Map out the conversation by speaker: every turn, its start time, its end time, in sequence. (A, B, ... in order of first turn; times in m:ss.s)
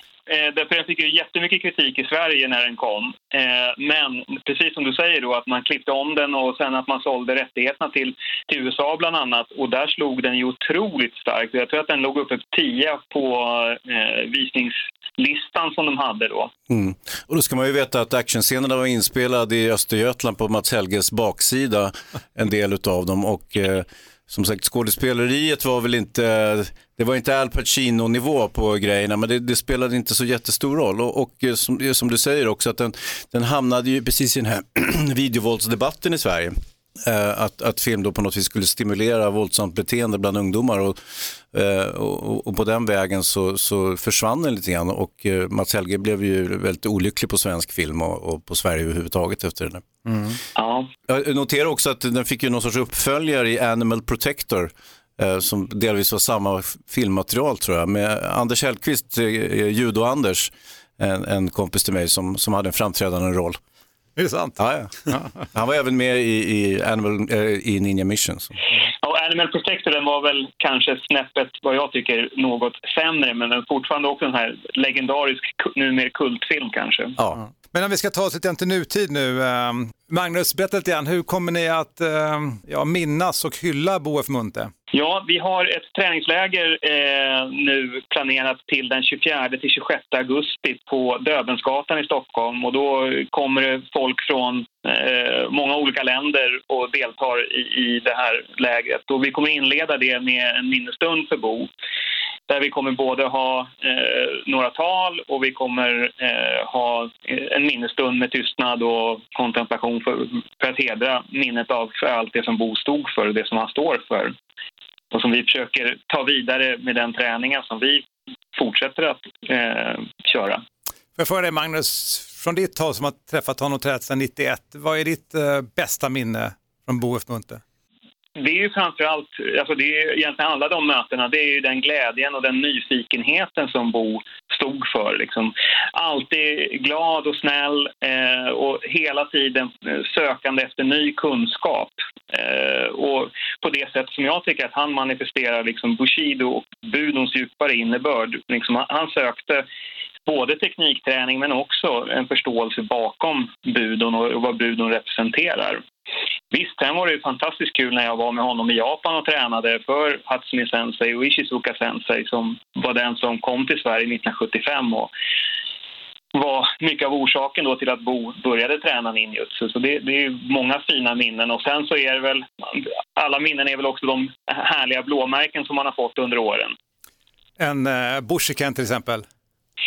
0:00.3-0:16.5 A
0:16.7-0:49.8 B
0:50.0-0:50.4 C
0:50.6-0:50.9 A
0:51.1-1:03.6 B
1:04.2-1:05.4 C
1:04.6-1:08.5 B
1:09.0-1:17.2 A
1:17.7-1:24.7 C
1:24.9-1:41.7 A
1:42.5-1:54.3 A
1:55.1-1:58.0 A
1:58.5-2:00.6 A
2:01.2-2:07.6 C
2:08.4-2:29.6 A
2:30.2-2:35.8 A
2:36.5-2:45.1 A
2:46.3-2:56.7 A
2:57.6-2:59.2 C